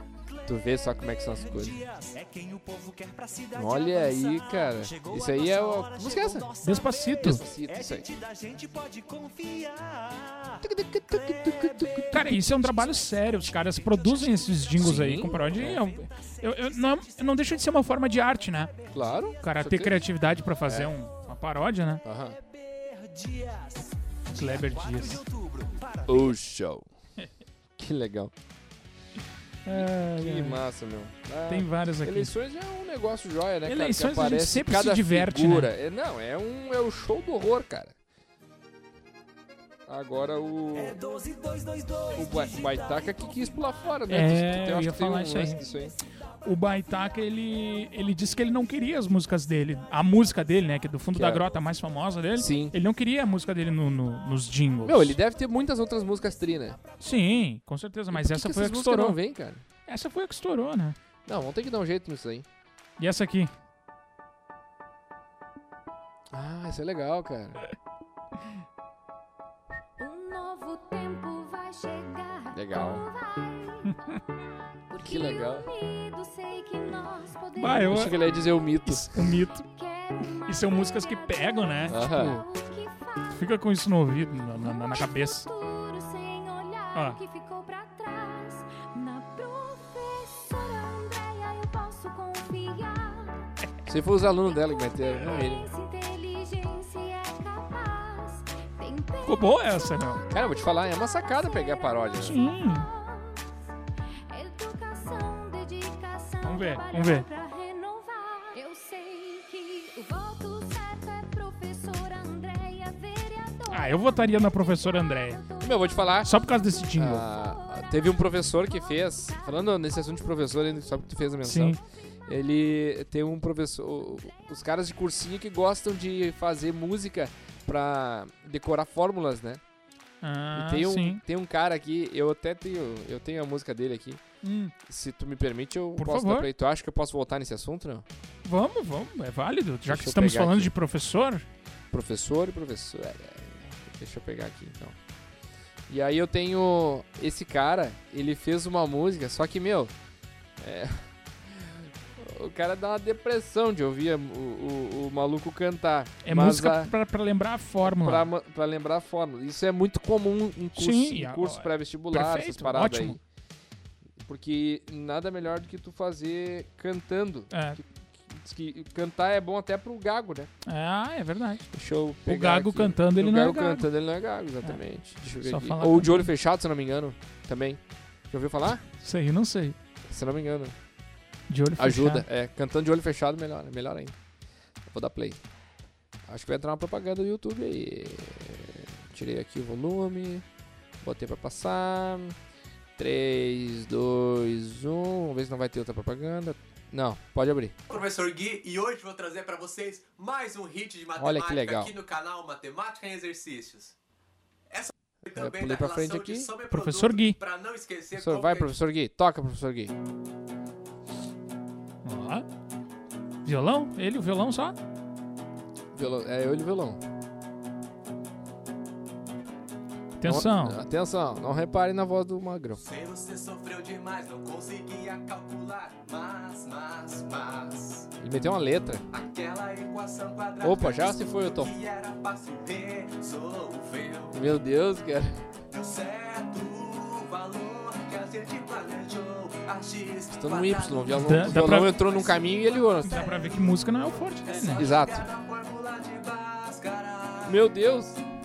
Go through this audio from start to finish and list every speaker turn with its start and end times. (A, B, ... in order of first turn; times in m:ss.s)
0:00.3-0:00.6 A
0:00.5-0:01.8 B
0:01.2-0:19.3 A
0:03.5-0:06.5 B
0:06.6-0:07.4 C
0:07.2-0:08.1 B
0:10.6-0:12.4 B
0:12.1-0:18.7 C
0:14.8-0:15.8 B
0:18.9-0:20.0 B
0:19.4-0:22.0 C
0:20.7-0:20.9 B
0:22.0-0:22.4 B
0:22.4-0:26.4 A
0:24.4-0:25.2 C
0:26.1-0:26.9 B
0:27.8-0:28.3 B
0:29.6-0:30.6 C
0:29.7-0:38.0 B
0:31.5-0:32.3 C
0:33.7-0:35.7 C
0:39.9-0:41.0 B
0:40.7-0:43.5 A
0:42.2-0:46.0 B
0:44.1-0:45.6 C
0:46.4-0:55.2 C
0:51.1-0:51.4 B
0:52.4-0:52.8 B
0:54.8-0:56.8 B
0:57.0-0:59.2 C
0:58.1-0:59.6 B
0:59.9-1:01.0 C
1:01.3-1:02.5 B
1:03.0-1:03.5 C
1:06.3-1:07.6 B
1:10.0-1:14.2 D
1:12.5-1:13.0 B
1:14.9-1:18.5 D
1:15.0-1:15.7 B
1:17.6-1:18.3 C
1:17.9-1:19.3 B
1:18.9-1:19.7 C
1:19.6-1:23.6 D
1:20.5-1:22.4 C
1:21.9-1:22.4 B
1:23.3-1:25.5 C
1:24.5-1:33.5 D
1:26.9-1:27.2 C
1:33.9-1:35.7 B
1:34.2-1:43.7 D
1:39.2-1:40.2 C
1:40.3-1:42.4 B
1:42.2-1:42.9 C
1:44.3-1:56.2 D
1:46.4-1:47.3 C
1:53.7-1:55.4 C
1:55.6-1:56.4 B
1:56.2-1:57.3 C
1:57.0-2:09.6 B
1:57.3-1:59.9 D
2:01.4-2:01.8 C
2:10.2-2:11.2 C
2:10.5-2:14.2 B
2:14.4-2:14.7 C
2:14.8-2:18.1 B
2:16.0-2:16.5 C
2:18.4-2:21.5 C
2:19.8-2:20.7 B
2:21.9-2:25.0 B
2:25.9-2:29.9 B
2:30.6-2:36.9 B
2:36.2-2:38.3 C
2:37.8-2:43.2 B
2:40.8-2:43.2 C
2:44.2-2:50.5 B
2:47.5-2:47.8 C
2:50.7-2:51.7 C
2:51.7-2:58.8 B
2:52.3-2:53.9 C
2:55.4-2:56.3 C
2:59.0-2:59.8 C
3:00.0-3:00.8 B
3:01.5-3:02.2 C
3:01.8-3:04.2 B
3:04.9-3:05.4 B
3:06.3-3:10.5 B
3:11.0-3:12.4 B
3:13.0-3:17.8 B
3:17.9-3:24.0 E
3:21.2-3:21.9 B
3:24.7-3:28.7 E
3:25.3-3:26.5 B
3:26.7-3:27.4 C
3:28.2-3:30.0 B
3:32.0-3:32.5 C
3:33.4-3:34.8 C
3:35.9-3:37.0 B
3:40.2-3:40.8 C
3:40.2-3:42.8 B
3:42.8-3:48.1 E
3:48.2-3:49.1 B
3:49.1-3:54.5 E
3:50.6-3:51.8 B
3:54.3-3:55.4 B
3:55.7-4:07.7 E
4:00.3-4:03.2 B
4:01.2-4:01.9 C
4:03.0-4:04.8 C
4:04.8-4:05.3 B
4:07.4-4:08.2 B